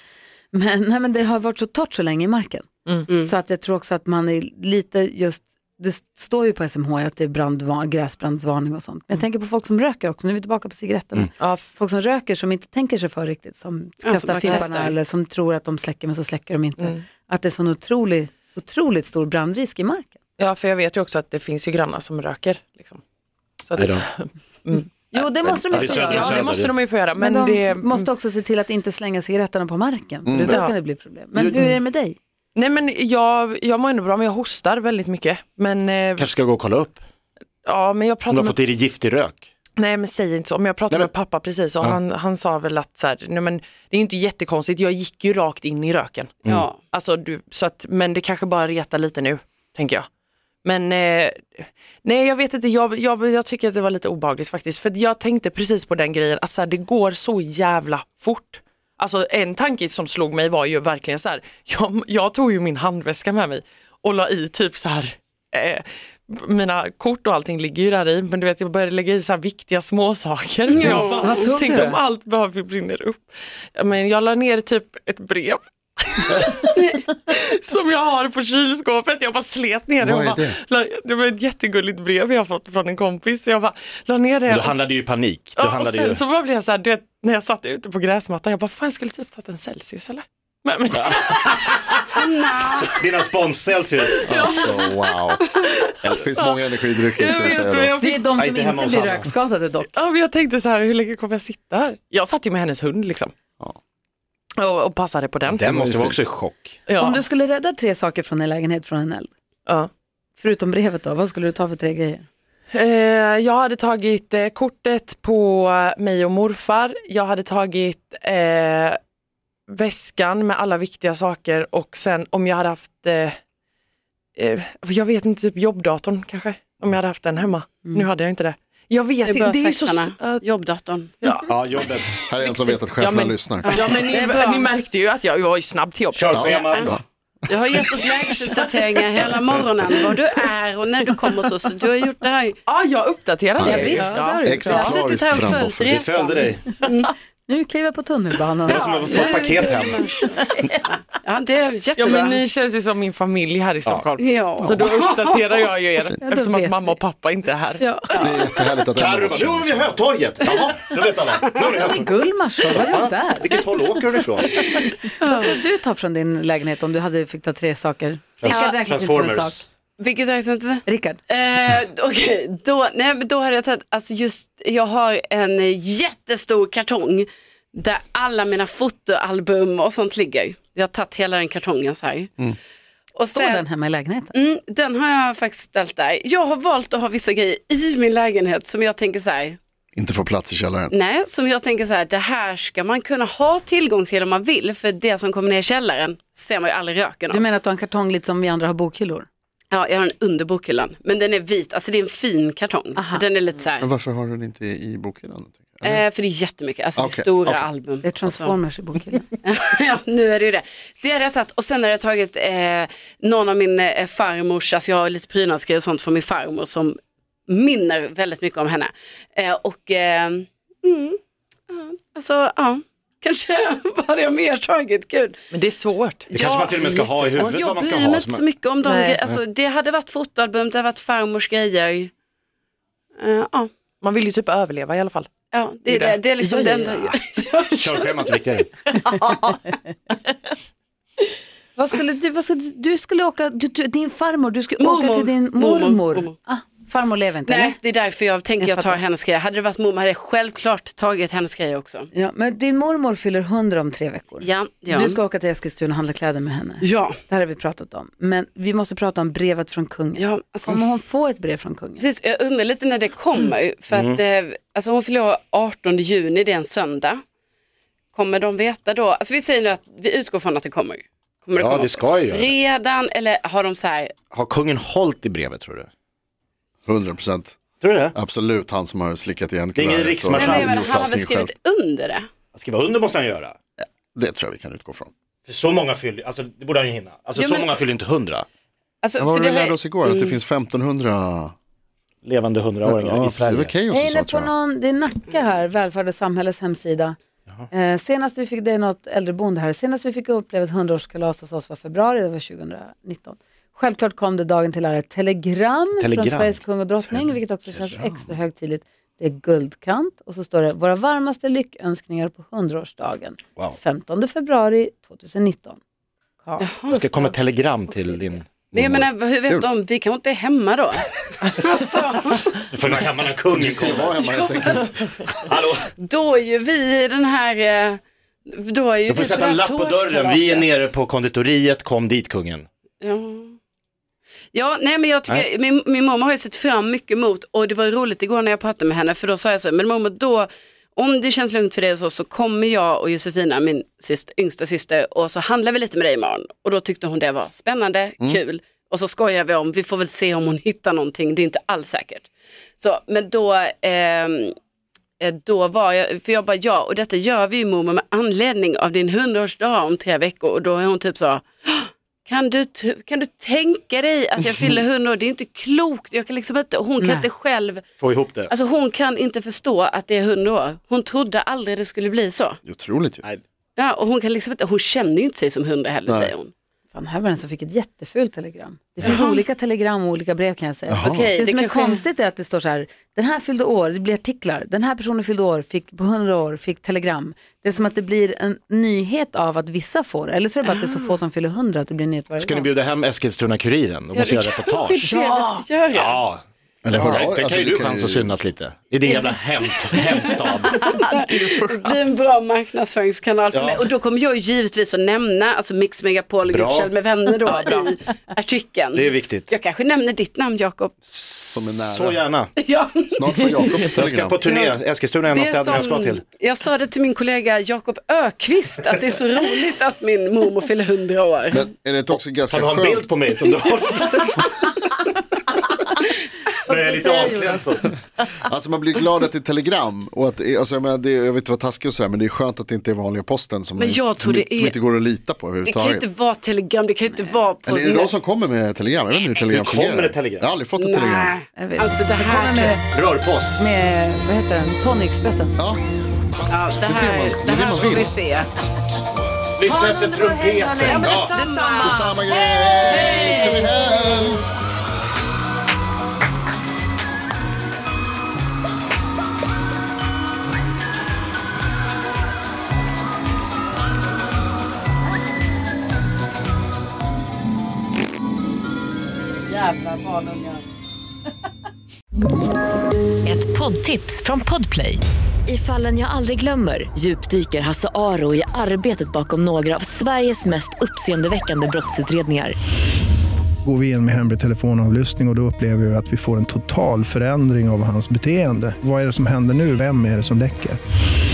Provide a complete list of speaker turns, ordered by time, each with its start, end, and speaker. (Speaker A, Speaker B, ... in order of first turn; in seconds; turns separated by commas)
Speaker A: 0.5-2.7, Speaker A: 3.2-20.1, Speaker B: 11.4-11.7, Speaker C: 14.0-14.9, Speaker B: 20.4-23.0, Speaker B: 23.7-28.1, Speaker D: 23.8-24.0, Speaker A: 25.1-26.5, Speaker D: 25.7-26.7, Speaker A: 27.1-32.2, Speaker E: 30.2-30.6, Speaker B: 30.4-30.7, Speaker B: 32.5-36.3, Speaker D: 36.2-37.0, Speaker B: 37.6-38.6, Speaker D: 38.3-39.5, Speaker B: 39.8-50.1, Speaker C: 46.5-46.8, Speaker B: 50.6-84.9, Speaker C: 70.7-71.4, Speaker A: 70.8-72.0, Speaker E: 80.0-80.6, Speaker D: 84.5-86.2, Speaker B: 85.5-91.8, Speaker D: 91.1-92.2, Speaker C: 92.1-93.0, Speaker D: 92.7-94.3, Speaker B: 94.2-98.3, Speaker E: 94.2-95.4, Speaker E: 96.0-97.9, Speaker A: 98.0-99.9, Speaker D: 98.3-99.3, Speaker B: 99.9-103.3, Speaker B: 104.6-105.6, Speaker E: 105.5-106.2, Speaker D: 105.6-106.8, Speaker B: 106.9-107.2, Speaker A: 107.0-109.3, Speaker A: 110.4-112.3, Speaker B: 112.7-119.0, Speaker B: 119.7-123.4, Speaker B: 124.3-130.4, Speaker C: 129.2-131.1, Speaker B: 131.2-136.4, Speaker D: 131.4-132.2, Speaker E: 132.3-133.9, Speaker C: 133.6-134.7, Speaker D: 136.1-137.0, Speaker E: 136.3-138.0, Speaker C: 136.4-136.9, Speaker C: 137.5-142.6, Speaker B: 138.0-139.3, Speaker B: 142.7-145.0, Speaker E: 143.6-145.9, Speaker A: 143.6-145.0, Speaker C: 144.7-147.1, Speaker D: 145.9-146.8, Speaker A: 147.5-150.8, Speaker D: 148.7-150.1, Speaker C: 148.7-152.4, Speaker B: 151.9-157.9, Speaker C: 154.2-155.4, Speaker A: 156.2-157.0, Speaker A: 157.8-158.4, Speaker C: 158.1-158.4, Speaker E: 158.2-159.9, Speaker D: 158.9-162.1, Speaker A: 161.5-169.6, Speaker D: 162.7-164.6, Speaker C: 165.2-165.6, Speaker D: 168.4-169.6, Speaker C: 168.4-168.8, Speaker C: 170.0-182.3, Speaker A: 170.8-171.2, Speaker C: 183.2-183.6, Speaker A: 183.3-184.3, Speaker C: 184.3-189.6, Speaker E: 189.9-190.9, Speaker C: 190.9-197.4, Speaker A: 197.3-199.3, Speaker C: 199.7-203.9, Speaker A: 203.0-203.2, Speaker E: 203.8-206.0, Speaker C: 205.8-208.5, Speaker E: 207.0-207.6, Speaker A: 208.0-209.3, Speaker C: 209.4-216.9, Speaker C: 217.5-221.2, Speaker C: 221.7-225.4, Speaker B: 225.5-226.3, Speaker C: 226.3-232.1, Speaker D: 226.3-228.4, Speaker B: 228.8-229.2, Speaker C: 233.2-233.7, Speaker B: 234.0-235.3, Speaker C: 235.5-238.3, Speaker B: 235.9-236.2, Speaker A: 236.4-237.2, Speaker D: 237.8-238.7, Speaker B: 239.1-239.4, Speaker A: 241.8-247.8, Speaker C: 244.8-246.3, Speaker C: 247.4-252.1, Speaker A: 248.6-249.0, Speaker A: 252.1-262.0, Speaker C: 254.4-255.2, Speaker C: 256.8-257.2, Speaker C: 260.2-260.8, Speaker C: 262.0-267.2, Speaker D: 263.9-264.2, Speaker C: 268.1-274.1, Speaker D: 271.6-272.5, Speaker D: 274.3-275.9, Speaker E: 276.9-277.6, Speaker D: 277.8-278.1, Speaker E: 278.1-281.5, Speaker D: 279.7-281.0, Speaker C: 280.3-282.3, Speaker D: 282.5-283.6, Speaker E: 284.1-285.1, Speaker D: 285.4-288.4, Speaker C: 287.4-287.7, Speaker C: 289.0-290.4, Speaker E: 289.2-291.5, Speaker D: 292.2-293.7, Speaker E: 292.8-294.5, Speaker A: 293.9-297.1, Speaker A: 297.7-315.8, Speaker D: 306.0-306.6, Speaker E: 307.1-308.3, Speaker A: 316.4-317.4, Speaker C: 316.6-317.0, Speaker D: 316.9-318.6, Speaker A: 317.9-318.2, Speaker C: 318.7-322.6, Speaker E: 318.7-319.6, Speaker D: 322.6-324.8, Speaker E: 323.5-325.3, Speaker C: 324.2-324.9, Speaker D: 325.4-325.9, Speaker C: 326.0-330.8, Speaker D: 329.1-332.7, Speaker C: 333.0-333.6, Speaker C: 334.5-352.3, Speaker C: 352.8-354.5, Speaker C: 355.2-367.8, Speaker A: 367.0-367.2, Speaker D: 368.0-368.5, Speaker C: 368.5-372.6, Speaker E: 372.6-373.2, Speaker C: 373.8-376.5, Speaker E: 376.1-376.3, Speaker A: 376.9-392.7, Speaker C: 379.0-379.4, Speaker E: 380.9-381.3, Speaker C: 381.0-382.0, Speaker C: 390.6-391.0, Speaker D: 392.4-395.1, Speaker C: 394.1-396.2, Speaker A: 395.0-395.6, Speaker D: 395.9-400.9, Speaker E: 396.8-398.3, Speaker C: 399.0-410.9, Speaker D: 403.5-403.9, Speaker D: 406.5-406.9, Speaker B: 407.4-407.9, Speaker D: 408.9-409.5, Speaker D: 411.1-412.5, Speaker E: 411.5-412.2, Speaker C: 412.6-413.9, Speaker E: 413.1-414.4, Speaker D: 413.9-416.2, Speaker C: 414.4-414.8, Speaker C: 415.3-421.7, Speaker E: 421.5-423.1, Speaker D: 422.5-424.4, Speaker C: 423.6-424.4, Speaker D: 426.7-427.9, Speaker A: 426.7-427.6, Speaker C: 426.9-427.4, Speaker E: 428.4-436.0, Speaker C: 433.8-434.8, Speaker C: 435.6-438.1, Speaker E: 437.6-441.3, Speaker D: 439.5-440.4, Speaker C: 440.8-442.8, Speaker A: 441.6-442.8, Speaker D: 442.9-443.6, Speaker A: 443.6-445.6, Speaker C: 446.5-448.5, Speaker E: 446.8-448.1, Speaker D: 449.6-451.3, Speaker B: 449.6-453.5, Speaker E: 450.8-454.4, Speaker C: 450.8-453.7, Speaker C: 469.5-470.6, Speaker F: 473.2-482.6, Speaker G: 483.6-490.8